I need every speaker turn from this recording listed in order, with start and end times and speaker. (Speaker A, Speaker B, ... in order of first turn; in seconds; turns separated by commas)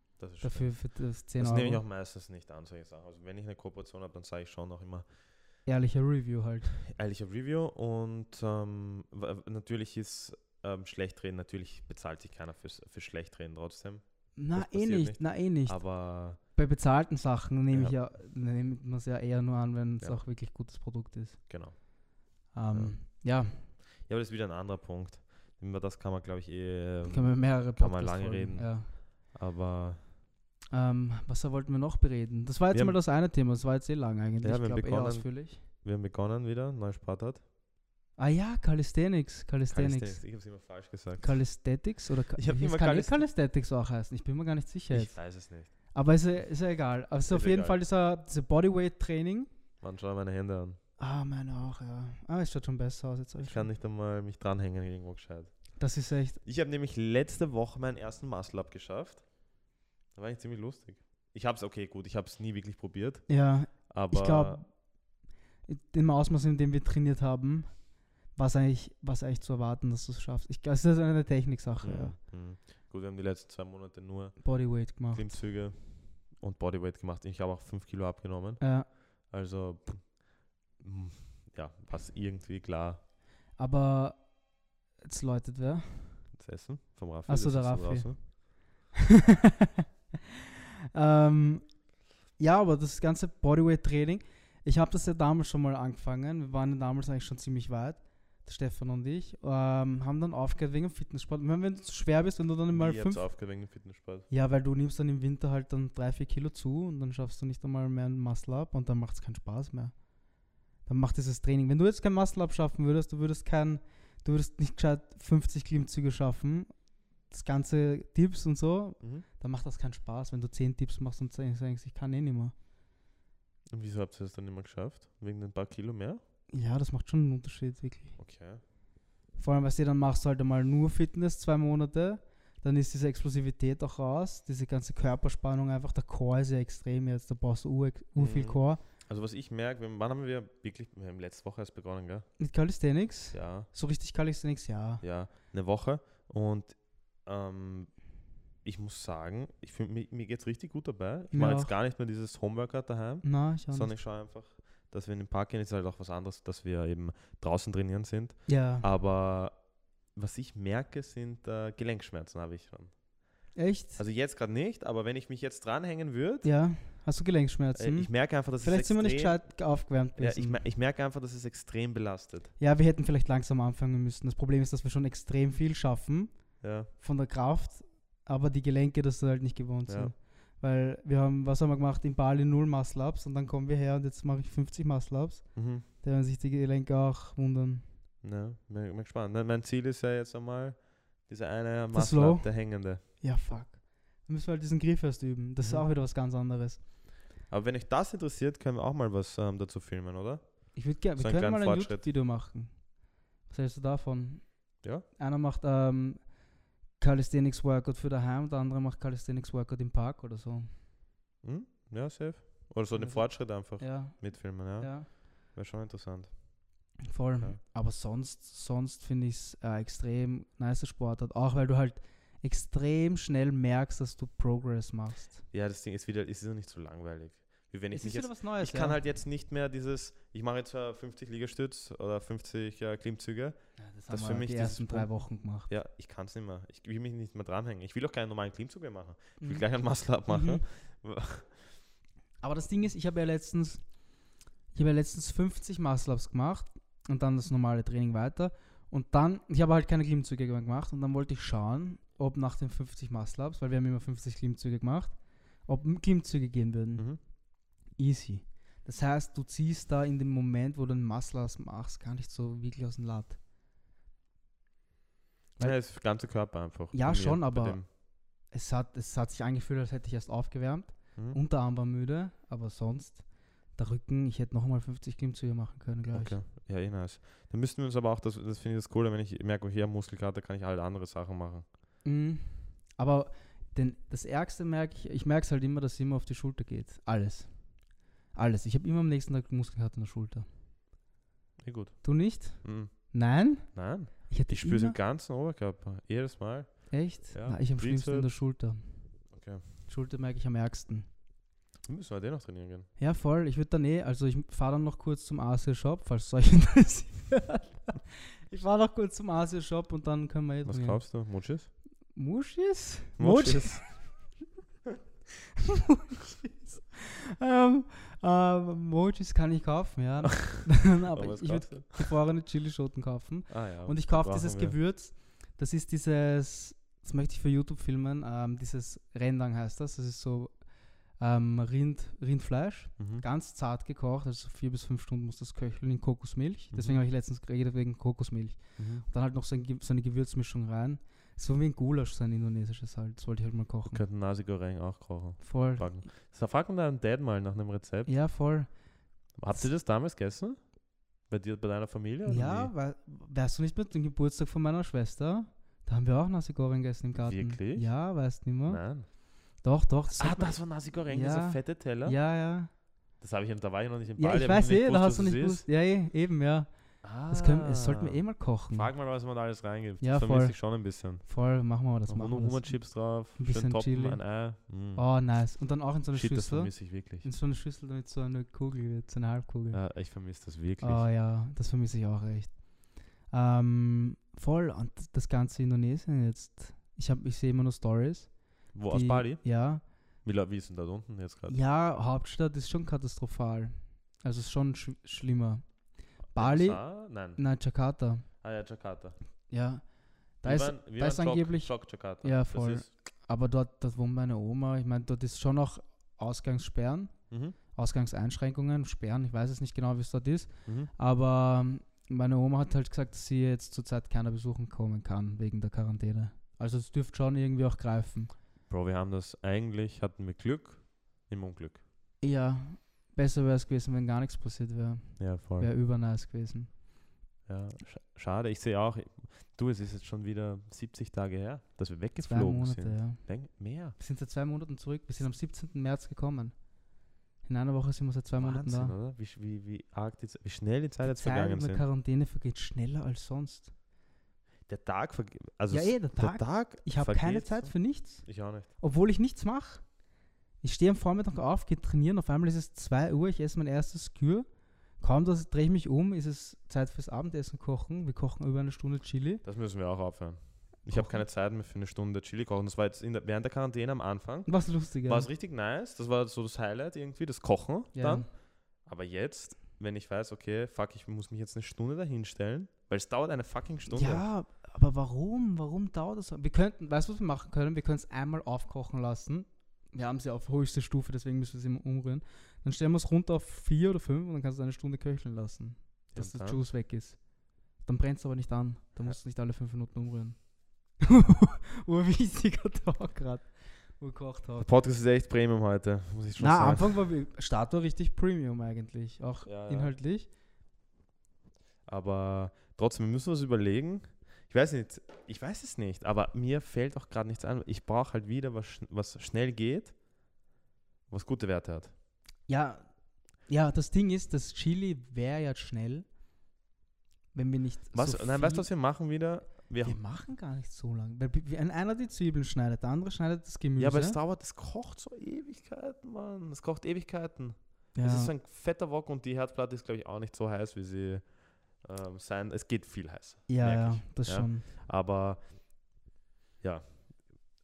Speaker A: 0.2-5.1, Speaker B: 0.4-1.8, Speaker B: 5.7-6.8, Speaker A: 6.8-16.4, Speaker B: 14.3-21.4, Speaker A: 17.7-18.0, Speaker A: 21.5-21.8, Speaker B: 22.5-23.7, Speaker A: 22.7-23.0, Speaker A: 23.6-30.0, Speaker B: 27.0-28.9, Speaker B: 30.7-35.6, Speaker A: 32.7-33.0, Speaker A: 34.4-37.4, Speaker B: 38.2-40.2, Speaker A: 39.7-41.4, Speaker B: 41.2-49.5, Speaker A: 42.3-43.3, Speaker A: 44.9-45.7, Speaker A: 47.3-47.8, Speaker A: 49.8-50.8, Speaker B: 51.0-53.7, Speaker A: 53.4-55.8, Speaker B: 55.8-56.4, Speaker A: 56.4-59.4, Speaker A: 60.1-64.6, Speaker B: 63.3-64.8, Speaker B: 65.7-72.2, Speaker A: 71.8-83.0, Speaker B: 74.4-75.4, Speaker B: 78.6-78.9, Speaker B: 83.6-84.3, Speaker B: 85.0-86.3, Speaker A: 86.3-88.2, Speaker B: 87.3-89.7, Speaker B: 90.9-91.8, Speaker B: 92.4-103.3, Speaker A: 102.7-104.3, Speaker B: 104.3-110.0, Speaker B: 110.8-116.7, Speaker B: 117.3-122.5, Speaker A: 119.0-119.2, Speaker A: 123.7-126.2, Speaker B: 126.5-128.2, Speaker A: 128.2-128.6, Speaker B: 129.3-138.8, Speaker A: 138.2-142.3, Speaker B: 142.4-145.0, Speaker A: 143.3-143.7, Speaker A: 145.0-148.0, Speaker A: 148.6-159.6, Speaker B: 151.3-151.7, Speaker B: 153.2-153.9, Speaker B: 158.5-158.8, Speaker A: 160.1-163.0, Speaker B: 163.5-164.0, Speaker A: 163.9-166.5, Speaker B: 166.4-170.6, Speaker A: 167.7-172.5, Speaker B: 172.6-187.8, Speaker A: 176.6-176.9, Speaker A: 179.9-180.1, Speaker A: 185.5-185.8, Speaker A: 188.2-193.0, Speaker B: 191.9-196.8, Speaker A: 195.6-195.9, Speaker A: 197.5-202.1, Speaker B: 200.7-202.8, Speaker B: 203.4-206.3, Speaker B: 207.0-210.7, Speaker A: 211.4-216.6, Speaker B: 212.9-215.1, Speaker B: 217.0-225.4, Speaker A: 225.5-233.6, Speaker B: 227.9-229.0, Speaker B: 233.8-235.7, Speaker A: 234.1-235.2, Speaker A: 235.7-241.6, Speaker B: 239.4-239.7, Speaker B: 240.2-240.6, Speaker B: 242.4-243.8, Speaker B: 244.7-255.1, Speaker B: 255.7-257.1, Speaker B: 257.9-263.4, Speaker A: 265.6-267.9, Speaker B: 266.9-276.4, Speaker A: 276.1-281.6, Speaker B: 282.0-287.8, Speaker B: 288.3-290.5, Speaker A: 291.6-293.2, Speaker B: 292.0-295.0, Speaker A: 293.7-298.3, Speaker B: 296.9-298.9, Speaker A: 299.3-299.6, Speaker B: 299.9-301.1, Speaker A: 301.8-302.9, Speaker B: 303.0-311.0, Speaker A: 310.6-311.7, Speaker B: 312.1-314.3, Speaker A: 313.2-314.0, Speaker B: 315.7-330.6, Speaker A: 320.5-322.1, Speaker A: 323.5-324.8, Speaker B: 331.2-344.0, Speaker A: 333.0-333.2, Speaker A: 336.7-337.0, Speaker A: 338.8-339.0, Speaker A: 343.9-348.1, Speaker B: 345.4-346.0, Speaker B: 348.1-348.7, Speaker A: 349.4-350.6, Speaker A: 351.2-352.7, Speaker B: 352.2-358.8, Speaker A: 357.1-357.9, Speaker A: 358.6-359.1, Speaker B: 359.6-362.7, Speaker A: 360.1-362.2, Speaker A: 363.2-365.6, Speaker B: 364.2-366.7, Speaker A: 367.0-371.2, Speaker B: 367.3-368.9, Speaker B: 370.0-379.8, Speaker A: 372.1-375.0, Speaker A: 376.1-377.3, Speaker A: 379.7-381.1, Speaker B: 380.8-389.8, Speaker A: 388.7-389.5, Speaker A: 390.2-391.6, Speaker B: 391.5-395.7, Speaker B: 396.2-398.3, Speaker A: 396.3-397.4, Speaker A: 398.4-399.1, Speaker B: 399.5-399.8, Speaker B: 400.4-407.1, Speaker A: 400.4-402.9, Speaker A: 407.3-407.6, Speaker B: 407.7-418.3, Speaker A: 410.6-410.9, Speaker A: 418.7-421.8, Speaker B: 422.2-426.7, Speaker A: 425.2-425.7, Speaker A: 427.4-433.9, Speaker B: 432.2-433.3, Speaker B: 433.9-436.5, Speaker B: 437.4-438.9, Speaker A: 438.4-441.8, Speaker B: 441.0-443.7, Speaker A: 444.7-448.7, Speaker B: 445.7-449.8, Speaker B: 450.6-454.5, Speaker B: 455.0-459.4, Speaker A: 459.4-468.3, Speaker B: 460.9-461.2, Speaker B: 464.4-465.3, Speaker B: 467.9-468.3, Speaker A: 468.8-474.2, Speaker B: 473.9-487.2, Speaker A: 486.1-486.6, Speaker B: 487.8-494.7, Speaker A: 494.6-496.9, Speaker B: 496.4-500.3, Speaker A: 499.4-499.9, Speaker A: 501.9-509.9, Speaker A: 511.1-511.9, Speaker B: 512.5-512.9, Speaker B: 513.5-516.1, Speaker B: 517.3-518.7, Speaker A: 517.9-520.0, Speaker B: 519.8-524.2, Speaker A: 523.8-535.7, Speaker B: 527.9-528.3, Speaker B: 533.5-534.6, Speaker A: 536.6-537.1